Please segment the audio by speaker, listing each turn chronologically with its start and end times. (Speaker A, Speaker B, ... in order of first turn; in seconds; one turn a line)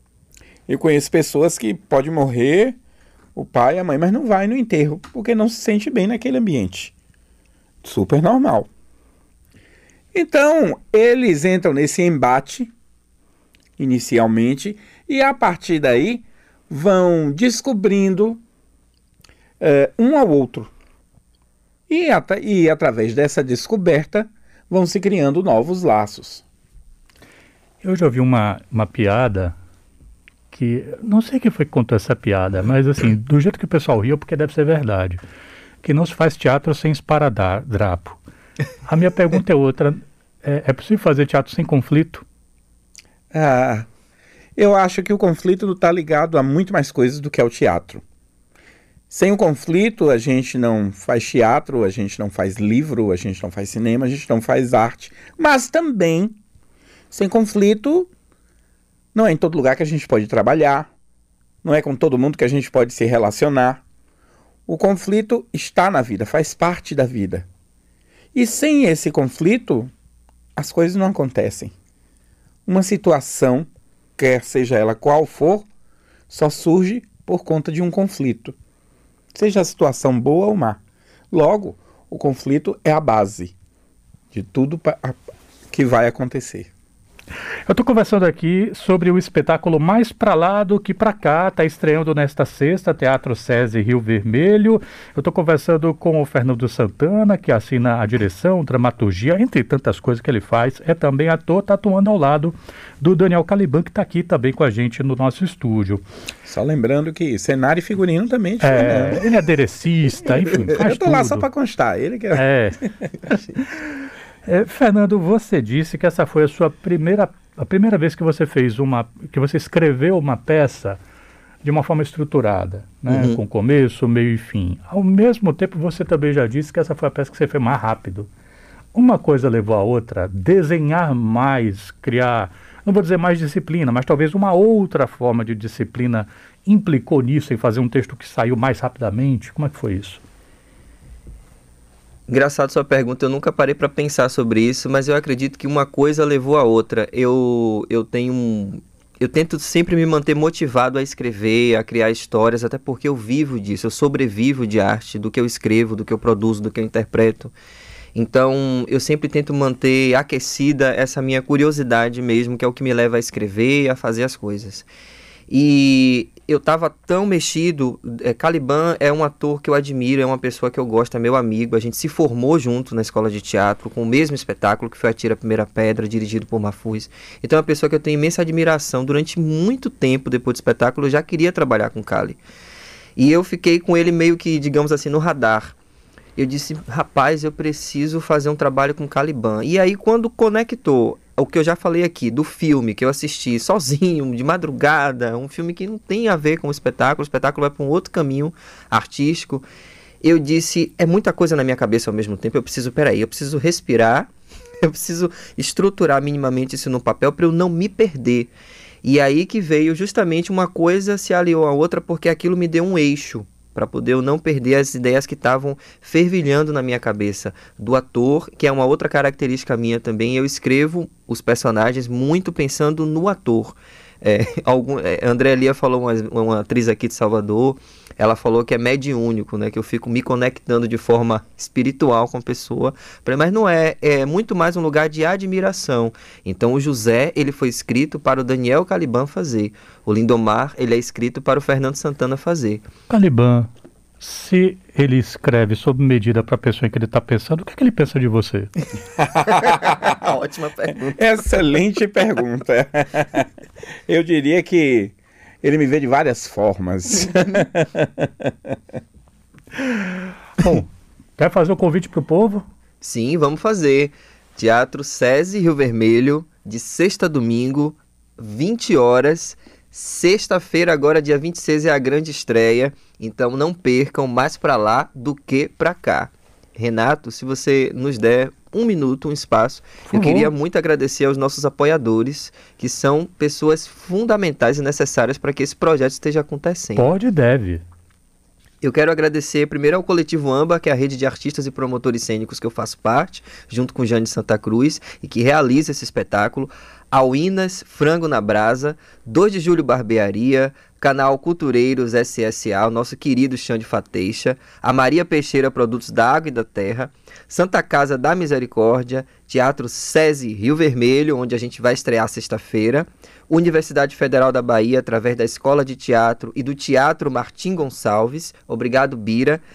Speaker A: 0.7-2.8
Speaker A: 3.3-6.9
Speaker A: 7.8-8.7
Speaker A: 10.1-12.7
Speaker A: 13.8-18.4
Speaker A: 19.6-20.7
Speaker A: 21.9-26.4
Speaker B: 27.8-29.6
Speaker B: 30.5-35.2
Speaker B: 35.8-38.2
Speaker B: 38.8-42.2
Speaker A: 43.3-43.9
Speaker A: 44.6-48.0
Speaker A: 49.1-56.4
Speaker A: 57.1-58.1
Speaker A: 59.1-60.9
Speaker A: 61.6-63.8
Speaker A: 64.7-67.5
Speaker A: 68.3-69.9
Speaker A: 70.5-71.7
Speaker A: 72.7-75.7
Speaker A: 76.3-78.5
Speaker A: 79.3-80.8
Speaker A: 81.3-83.5
Speaker A: 84.3-85.2
Speaker A: 85.7-86.7
Speaker B: 87.7-106.0
Speaker A: 106.4-109.2
Speaker B: 108.6-111.4
Speaker A: 110.3-112.9
Speaker B: 112.3-113.7
Speaker B: 114.5-121.0
Speaker B: 121.6-128.3
Speaker C: 123.1-123.4
Speaker B: 128.9-140.2
Speaker C: 142.3-157.5
Speaker C: 158.1-164.9
Speaker C: 165.5-182.4
Speaker C: 183.2-185.7
Speaker C: 186.3-199.6
Speaker C: 200.2-204.3
Speaker C: 204.8-208.5
Speaker C: 209.0-242.8
Speaker B: 243.1-248.7
Speaker A: 249.2-250.0
Speaker C: 249.4-251.7
Speaker A: 251.1-253.5
Speaker A: 254.1-258.5
Speaker B: 260.6-262.6
Speaker C: 263.0-287.1
Speaker B: 280.1-280.5
Speaker B: 286.9-287.8
Speaker C: 288.8-319.6